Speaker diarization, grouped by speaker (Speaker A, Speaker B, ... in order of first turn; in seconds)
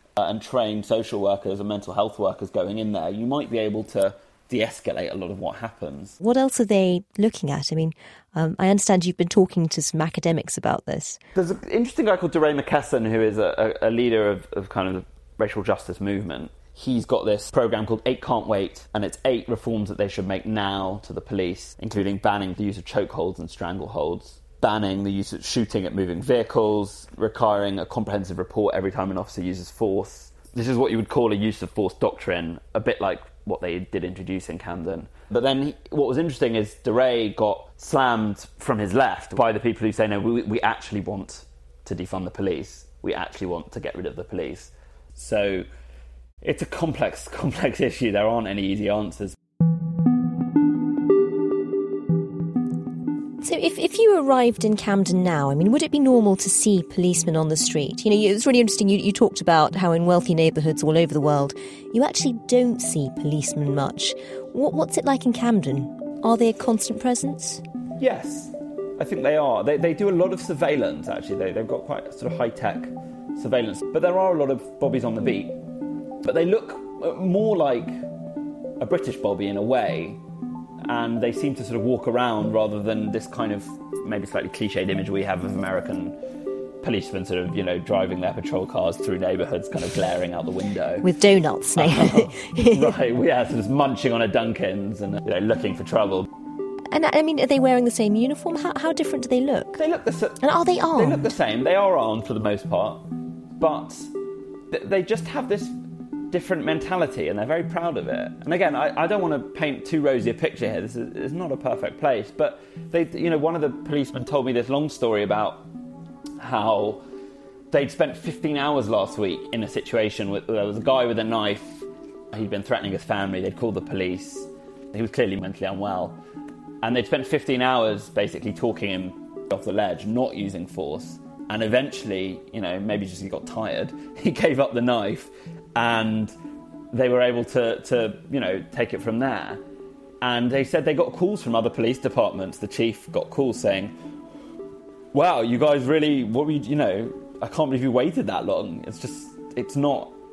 Speaker A: 0.2-6.2, 11.3-45.7, 46.4-49.4, 68.0-75.6, 76.2-78.0, 78.8-80.2, 80.8-86.2, 86.8-91.1, 91.8-96.3, 99.8-100.4, 100.9-103.0, 103.6-104.1, 104.7-105.7, 106.3-115.7, 116.4-117.0, 117.7-126.2, 126.8-136.3, 136.9-139.6, 140.2-143.9, 145.1-150.2
Speaker B: 6.2-11.2, 53.4-67.6, 91.0-92.9, 96.9-99.8, 100.4-101.3